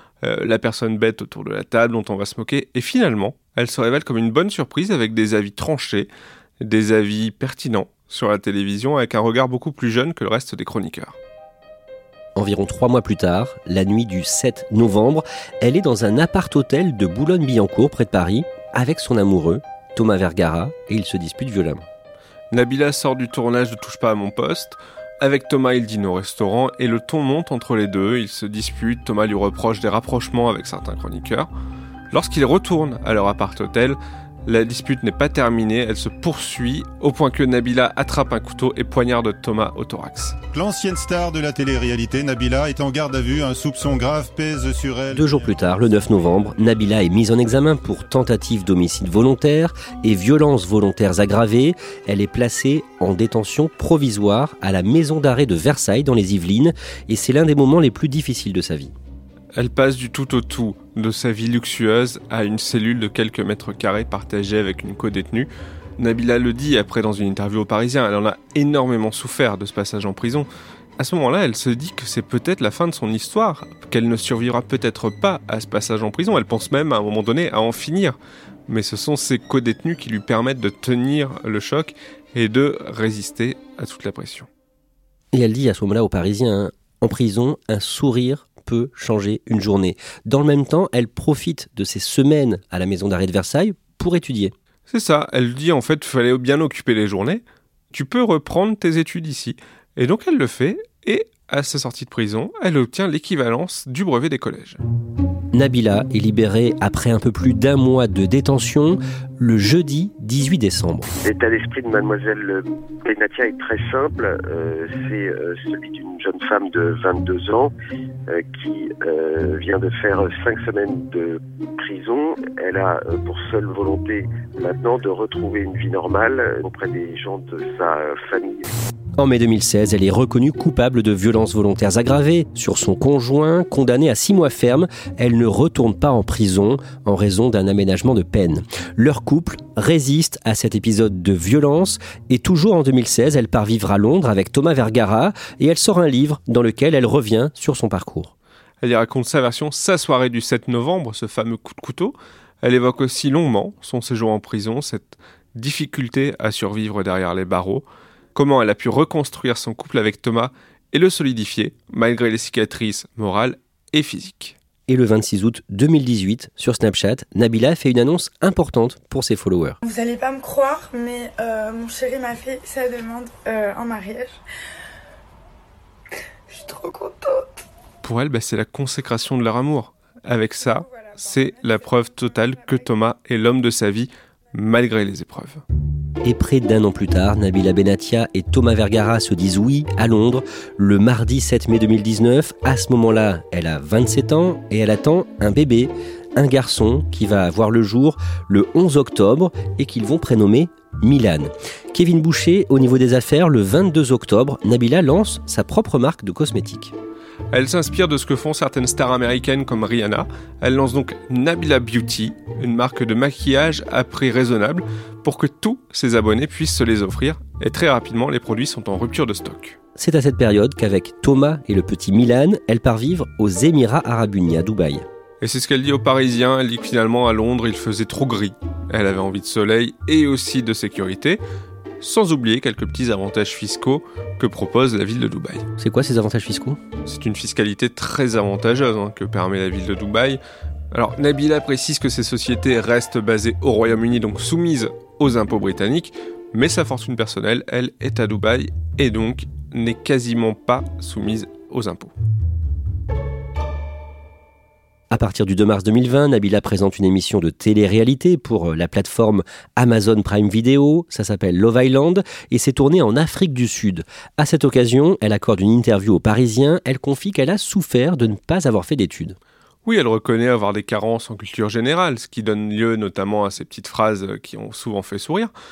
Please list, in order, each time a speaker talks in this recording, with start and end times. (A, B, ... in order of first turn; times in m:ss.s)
0:00.2-0:06.1 A
0:06.6-0:11.2 A
0:12.4-0:21.8 B
0:22.5-0:31.5 A
0:32.1-0:40.4 A
0:40.5-0:45.5 C
0:45.1-0:58.9 B
0:59.6-1:10.5 A
1:11.0-1:18.2 A
1:18.7-1:24.5 A
1:25.3-1:34.5 B
1:34.9-1:44.8 A
1:45.5-1:51.1 B
1:51.2-1:57.7 D
1:58.3-2:08.7 D
2:09.2-2:28.3 B
2:28.8-2:44.6 A
2:44.9-2:49.8 B
2:49.8-2:54.4 E
2:56.5-2:57.5 E
2:58.0-3:05.6 A
3:06.2-3:26.9 B
3:27.5-3:39.8 A
3:40.0-3:45.0 B
3:45.4-3:51.4 A
3:52.0-3:55.7 A
3:55.8-3:56.8 B
3:57.0-4:00.4 A
4:00.9-4:12.1 A
4:15.1-4:29.4 B
4:29.8-4:35.5 A